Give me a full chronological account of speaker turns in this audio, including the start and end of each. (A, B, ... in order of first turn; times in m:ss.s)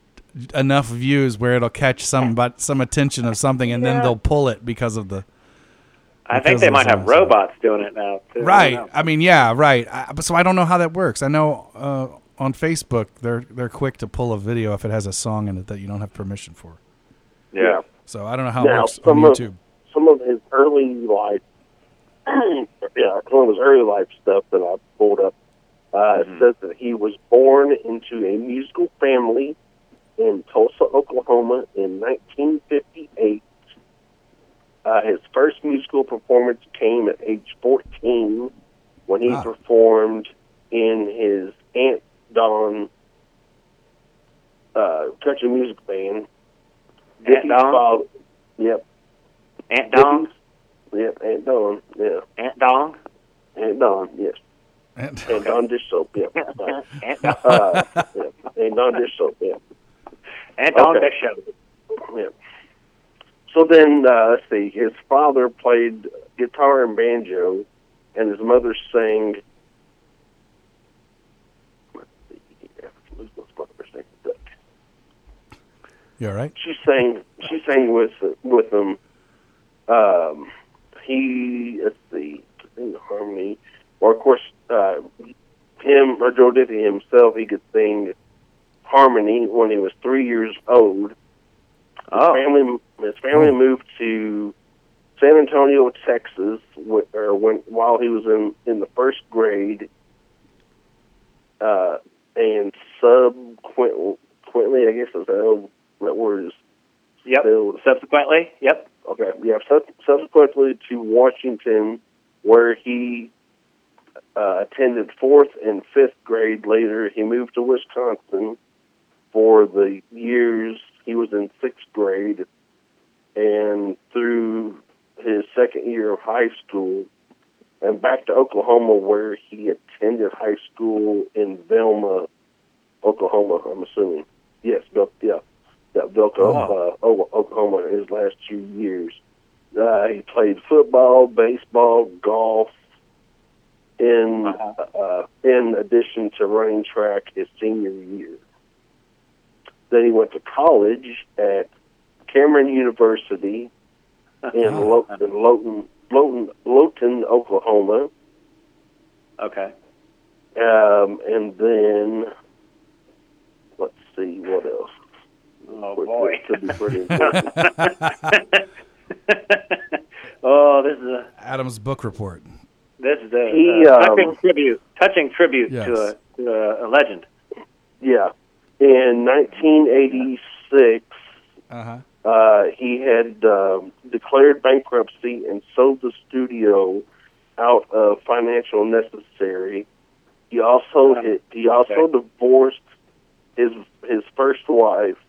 0:00.4-0:05.3 A
0:03.7-0:04.1 B
0:06.3-0:08.9 B
0:06.3-0:07.4 A
0:08.4-0:16.8 A
0:17.5-0:17.8 B
0:17.6-0:17.8 C
0:18.1-0:19.6 A
0:18.6-0:21.4 C
0:22.3-0:25.3 C
0:25.9-0:29.6 C
0:26.2-0:26.5 B
0:30.2-0:33.5 C
0:34.8-0:38.5 C
0:39.1-0:42.9 C
0:44.8-0:46.3 C
0:47.2-0:47.8 B
0:47.2-0:48.1 C
0:48.6-0:48.8 C
0:49.7-0:50.3 B
0:49.9-0:50.3 C
0:50.9-0:52.2 C
0:52.4-0:53.0 B
0:53.6-0:54.4 C
0:55.0-0:55.5 A
0:55.3-0:56.8 C
0:56.4-0:57.5 B
0:57.3-0:58.0 A
0:57.3-0:59.6 C
1:00.6-1:01.5 B
1:00.7-1:01.1 C
1:02.0-1:02.3 C
1:03.5-1:09.4 C
1:12.0-1:14.4 C
1:16.2-1:16.5 A
1:16.6-1:19.0 C
1:19.9-1:25.1 C
1:25.8-1:28.1 C
1:28.8-1:31.2 C
1:32.1-1:32.4 B
1:32.1-1:34.6 C
1:35.2-1:39.9 C
1:41.6-1:46.6 C
1:47.3-1:48.9 B
1:47.4-1:47.8 C
1:49.1-1:53.3 C
1:54.4-1:58.6 C
1:59.3-2:02.5 C
2:03.4-2:07.1 C
2:07.8-2:12.3 C
2:13.0-2:15.4 C
2:15.9-2:19.2 C
2:16.4-2:16.7 A
2:16.4-2:16.7 B
2:19.8-2:22.7 C
2:24.0-2:28.4 C
2:24.5-2:24.7 B
2:29.9-2:31.7 C
2:32.3-2:33.7 C
2:34.5-2:38.1 C
2:34.6-2:34.9 A
2:39.4-2:39.7 B
2:40.6-2:42.3 C
2:43.8-2:44.9 C
2:45.7-2:48.6 B
2:46.0-2:47.7 C
2:49.3-2:51.3 B
2:51.4-2:52.5 A
2:53.0-2:57.3 B
2:53.5-2:54.4 C
2:55.7-2:56.1 A
2:58.0-3:01.2 C
3:01.7-3:02.0 A
3:02.2-3:07.0 C
3:07.6-3:09.9 C
3:10.5-3:12.8 C
3:13.6-3:15.2 C